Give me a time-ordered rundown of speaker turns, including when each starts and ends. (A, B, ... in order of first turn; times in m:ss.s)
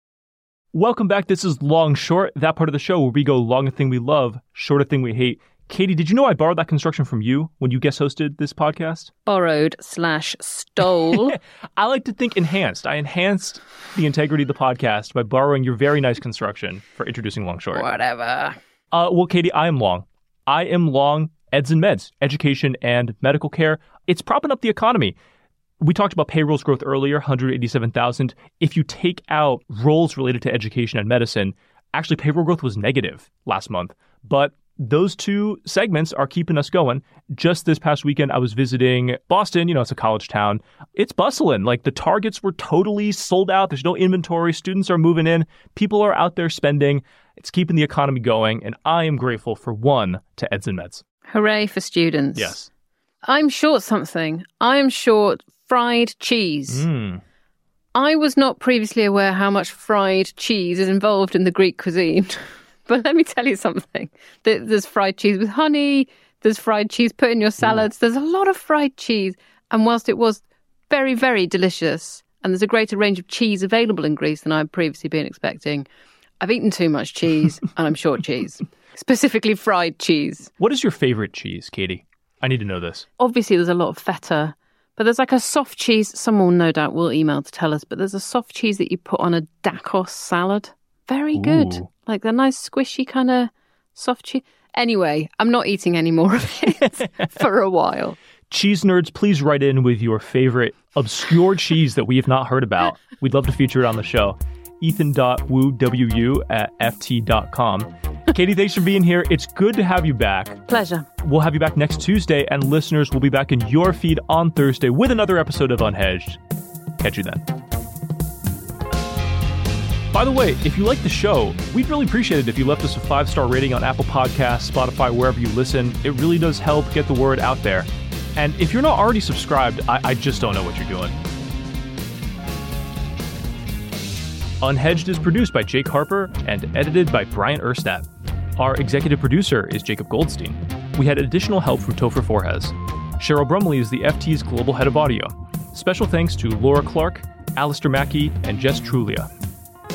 0:00.7-0:09.1 A
0:09.3-0:11.4 B
0:11.1-0:17.9 A
0:17.7-0:18.6 B
0:18.9-0:25.2 A
0:25.8-0:51.0 A
0:51.3-0:52.6 B
0:52.4-0:52.7 A
0:53.2-0:56.8 B
0:56.7-0:57.2 A
0:57.9-1:15.9 B
1:16.4-1:20.5 B
1:20.6-1:23.1 A
1:23.2-1:38.2 B
1:31.3-1:31.9 A
1:38.5-1:50.6 A
1:50.7-1:51.1 B
1:51.2-1:56.4 A
1:57.0-1:57.4 A
2:00.1-2:11.2 A
2:14.6-2:29.3 A